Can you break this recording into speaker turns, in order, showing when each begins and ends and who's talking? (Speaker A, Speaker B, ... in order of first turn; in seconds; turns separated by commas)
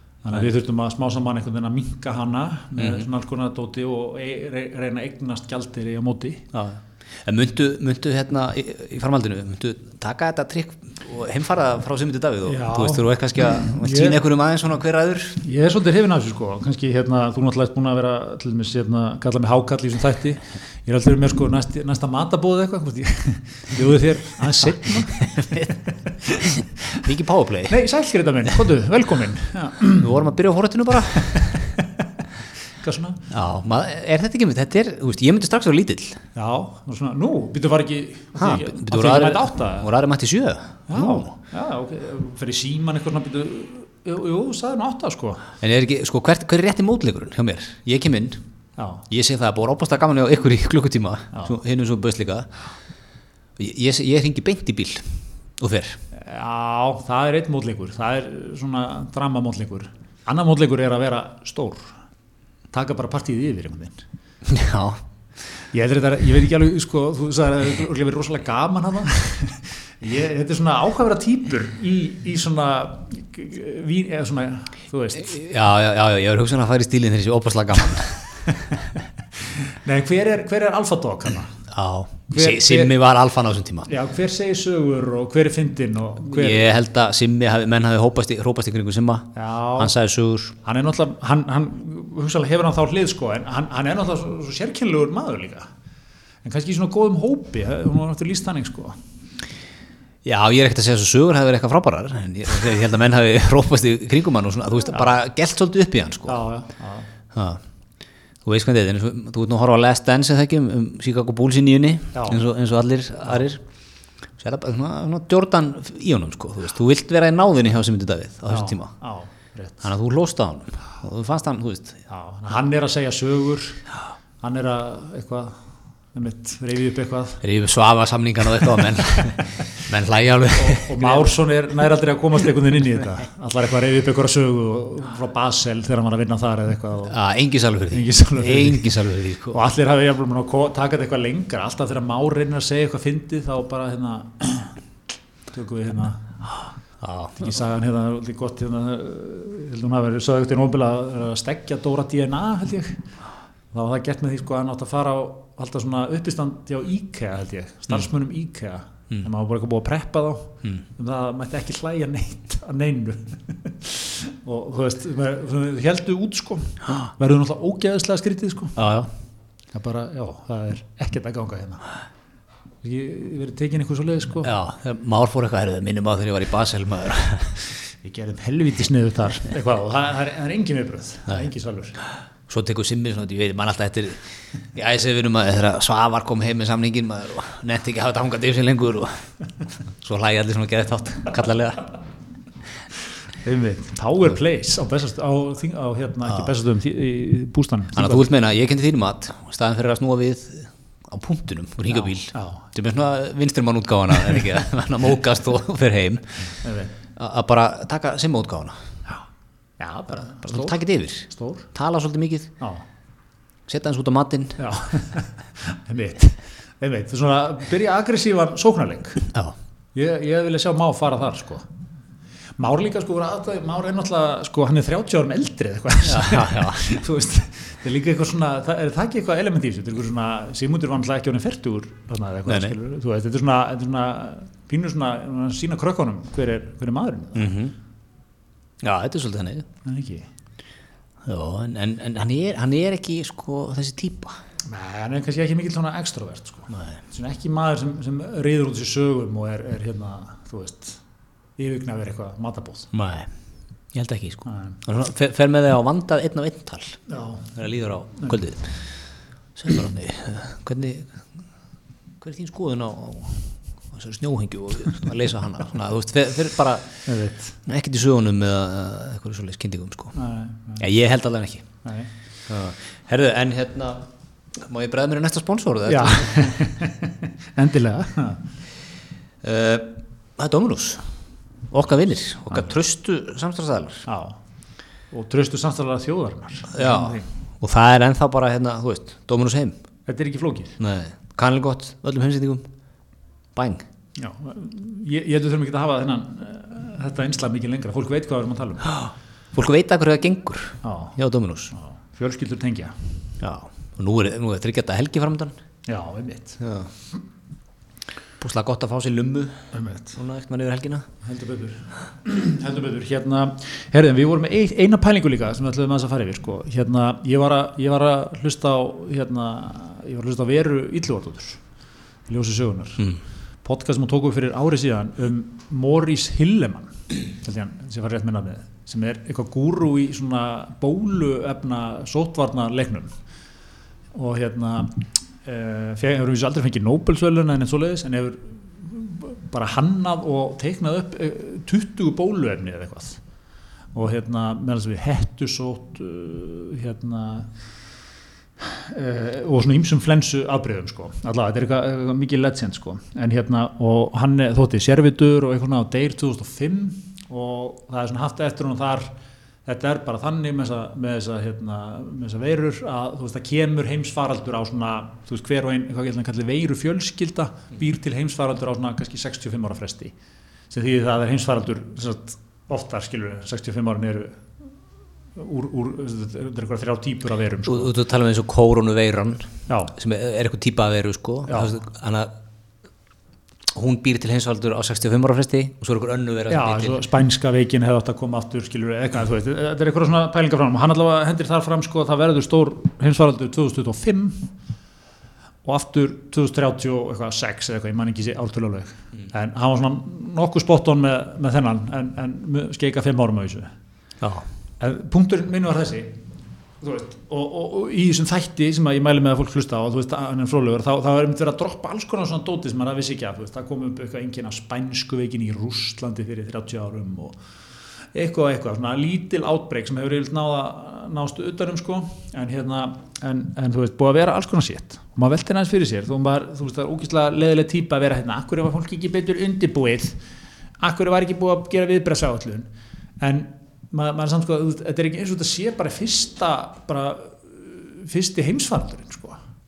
Speaker A: 0.2-6.5, Speaker B: 2.8-3.1, Speaker B: 6.5-15.4, Speaker A: 12.4-14.2, Speaker A: 15.4-27.1, Speaker B: 24.9-25.7, Speaker B: 26.4-27.8, Speaker A: 27.7-30.1, Speaker B: 29.9-31.7, Speaker A: 31.1-32.0, Speaker A: 32.8-33.3, Speaker B: 33.3-36.2, Speaker A: 36.3-39.9, Speaker B: 38.4-41.3, Speaker A: 40.9-45.5, Speaker B: 45.6-48.4, Speaker A: 48.8-49.0, Speaker B: 49.1-52.5, Speaker B: 53.6-56.0, Speaker A: 56.1-62.0, Speaker A: 62.7-64.0, Speaker B: 64.4-65.0, Speaker A: 65.7-75.4, Speaker B: 75.2-78.3, Speaker A: 78.4-78.8, Speaker A: 79.4-81.6, Speaker B: 81.7-83.9, Speaker A: 82.3-82.9, Speaker A: 83.8-86.7, Speaker B: 86.2-90.6, Speaker A: 89.3-89.9, Speaker A: 90.6-95.7, Speaker A: 96.4-99.0, Speaker B: 100.2-106.4, Speaker A: 106.3-107.1, Speaker B: 107.3-107.6, Speaker B: 108.4-113.6, Speaker A: 112.1-112.4, Speaker B: 114.4-118.9, Speaker A: 118.5-119.8, Speaker B: 119.8-122.0, Speaker A: 122.1-123.8, Speaker A: 124.4-125.6, Speaker A: 126.1-127.4, Speaker B: 127.4-131.3, Speaker A: 130.5-137.2, Speaker B: 137.1-139.6, Speaker A: 137.9-138.9, Speaker A: 139.5-144.8, Speaker A: 145.5-146.4, Speaker B: 147.0-147.5, Speaker A: 147.4-153.0, Speaker A: 153.7-168.8, Speaker B: 168.8-169.1, Speaker A: 169.7-171.9, Speaker A: 172.8-174.5, Speaker B: 174.4-177.6, Speaker A: 178.0-182.0, Speaker B: 182.5-189.3, Speaker B: 190.0-191.9, Speaker A: 193.4-198.2, Speaker B: 197.9-206.6, Speaker A: 201.9-202.6, Speaker A: 206.6-206.9, Speaker B: 207.2-208.7, Speaker A: 209.8-210.8, Speaker B: 210.4-212.5, Speaker A: 211.3-211.7, Speaker B: 213.7-214.7, Speaker A: 214.6-219.3, Speaker A: 219.9-221.7, Speaker A: 222.6-237.5, Speaker B: 226.0-227.1, Speaker B: 232.5-232.8, Speaker B: 237.3-237.7, Speaker B: 238.8-239.7, Speaker A: 239.8-240.3, Speaker B: 241.2-244.4, Speaker A: 244.7-251.0, Speaker B: 246.7-247.0, Speaker A: 251.6-252.9, Speaker B: 252.9-253.3, Speaker B: 253.9-257.0, Speaker A: 254.4-254.8, Speaker A: 257.1-257.6, Speaker B: 257.5-261.2, Speaker B: 262.2-267.0, Speaker A: 267.1-267.6, Speaker B: 267.6-270.1, Speaker A: 270.1-270.8, Speaker B: 270.8-271.7, Speaker A: 271.8-272.1, Speaker B: 272.5-276.6, Speaker A: 275.9-278.4, Speaker B: 279.4-281.1, Speaker B: 281.7-284.1, Speaker A: 284.1-284.4, Speaker A: 285.1-287.3, Speaker B: 286.7-289.7, Speaker A: 290.1-290.8, Speaker B: 290.8-292.6, Speaker B: 293.6-293.9, Speaker A: 294.2-298.9, Speaker B: 298.9-301.7, Speaker A: 300.8-301.1, Speaker A: 301.7-303.1, Speaker B: 303.4-305.5, Speaker A: 305.9-306.6, Speaker B: 306.6-306.9, Speaker B: 308.4-311.1, Speaker A: 309.7-310.2, Speaker A: 311.2-321.6, Speaker A: 322.3-333.1, Speaker A: 334.1-343.2, Speaker A: 343.9-347.6, Speaker A: 348.6-359.1, Speaker A: 359.6-370.1, Speaker A: 370.7-374.4, Speaker A: 375.4-377.9, Speaker B: 377.6-382.3, Speaker A: 379.7-379.9, Speaker A: 381.5-381.7, Speaker B: 383.7-387.0, Speaker A: 386.5-394.5, Speaker A: 395.6-403.7, Speaker B: 404.2-404.4, Speaker A: 404.8-406.2, Speaker A: 406.8-417.4, Speaker A: 418.1-430.2, Speaker A: 430.8-432.7, Speaker A: 433.2-439.4